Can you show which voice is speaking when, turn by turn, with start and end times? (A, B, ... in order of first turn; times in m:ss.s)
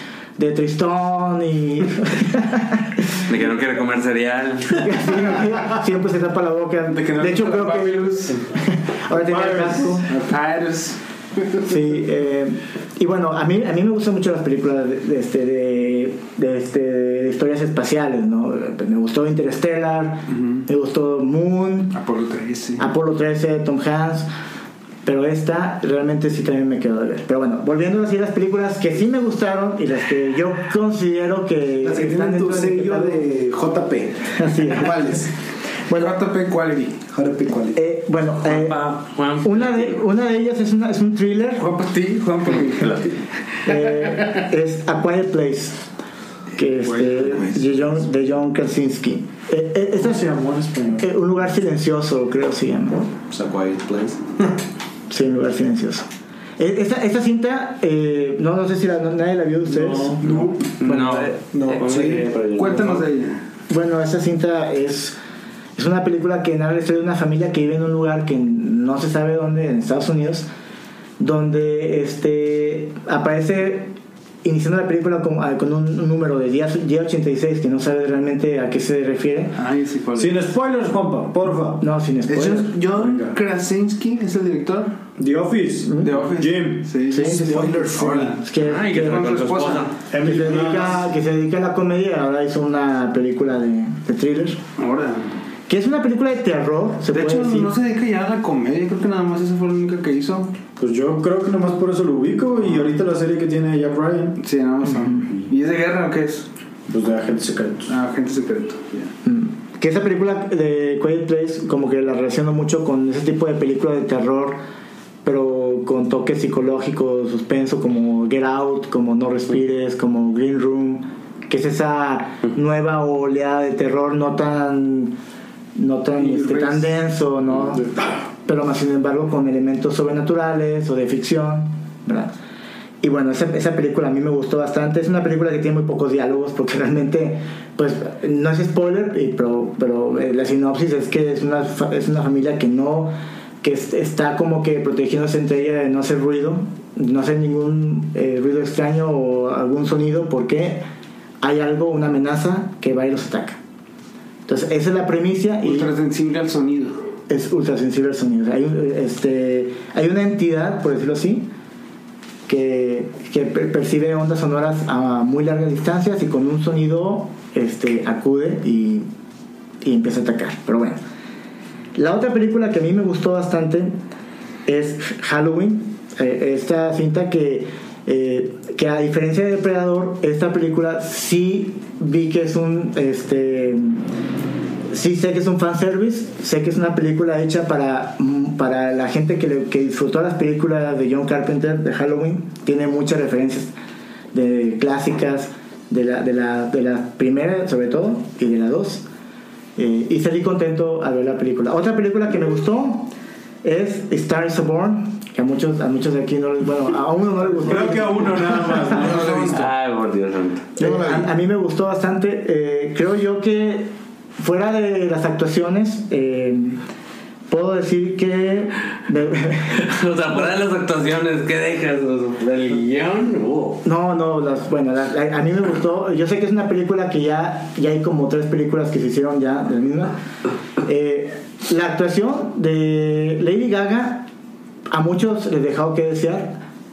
0:00.4-0:03.2 A
0:03.3-0:04.9 B
0:04.8-0:10.1 A
0:06.9-0:08.4 C
0:09.1-0:10.0 D
0:09.9-0:11.7 C
0:11.6-0:22.0 A
0:20.3-0:20.6 C
0:21.9-0:22.9 C
0:22.8-0:24.3 A
0:25.0-0:33.2 A
0:31.8-0:35.3 E
0:34.3-0:35.0 A
0:35.9-0:36.2 A
0:35.9-0:37.0 C
0:37.1-0:37.8 E
0:37.8-0:41.7 A
0:38.4-0:40.0 B
0:41.6-0:43.2 C
0:43.6-0:45.8 A
0:46.5-0:50.3 A
0:46.9-0:47.6 C
0:50.0-0:51.1 D
0:51.0-0:53.2 A
0:53.3-0:54.5 E
0:55.1-0:56.1 A
0:56.6-1:00.2 A
0:59.7-1:00.5 D
1:00.8-1:03.0 B
1:00.8-1:01.3 A
1:01.5-1:02.3 E
1:02.5-1:03.4 C
1:03.7-1:05.2 A
1:05.8-1:10.5 A
1:11.2-1:13.9 A
1:14.4-1:19.5 A
1:19.6-1:20.4 C
1:20.2-1:21.8 D
1:21.8-1:22.7 A
1:22.3-1:25.0 C
1:22.9-1:23.4 D
1:25.2-1:28.0 D
1:26.0-1:28.4 C
1:27.1-1:27.5 A
1:27.2-1:28.3 E
1:28.2-1:29.4 A
1:28.6-1:29.9 B
1:28.9-1:29.9 C
1:30.1-1:31.1 D
1:30.2-1:34.6 A
1:34.8-1:35.3 C
1:35.7-1:37.7 A
1:37.1-1:40.5 C
1:40.8-1:44.4 D
1:44.4-1:46.5 C
1:44.9-1:45.3 A
1:46.9-1:47.9 D
1:47.9-1:49.1 C
1:49.2-1:54.6 A
1:55.2-2:05.2 A
2:05.8-2:07.9 A
2:06.2-2:06.8 C
2:08.4-2:12.3 A
2:13.0-2:30.8 A
2:31.4-2:33.6 A
2:34.5-2:35.9 A
2:35.6-2:37.0 C
2:37.3-2:41.5 A
2:42.5-2:49.1 A
2:49.8-2:51.0 A
2:52.0-2:53.9 A
2:54.7-3:04.0 A
3:04.9-3:13.7 A
3:14.3-3:19.0 A
3:19.8-3:23.1 A
3:23.6-3:29.0 A
3:27.6-3:29.4 D
3:28.9-3:29.7 E
3:29.0-3:30.7 B
3:30.8-3:36.8 A
3:30.8-3:31.3 E
3:37.5-3:39.9 A
3:39.8-3:43.8 B
3:43.8-3:50.2 A
3:50.8-3:54.3 A
3:54.9-3:56.6 A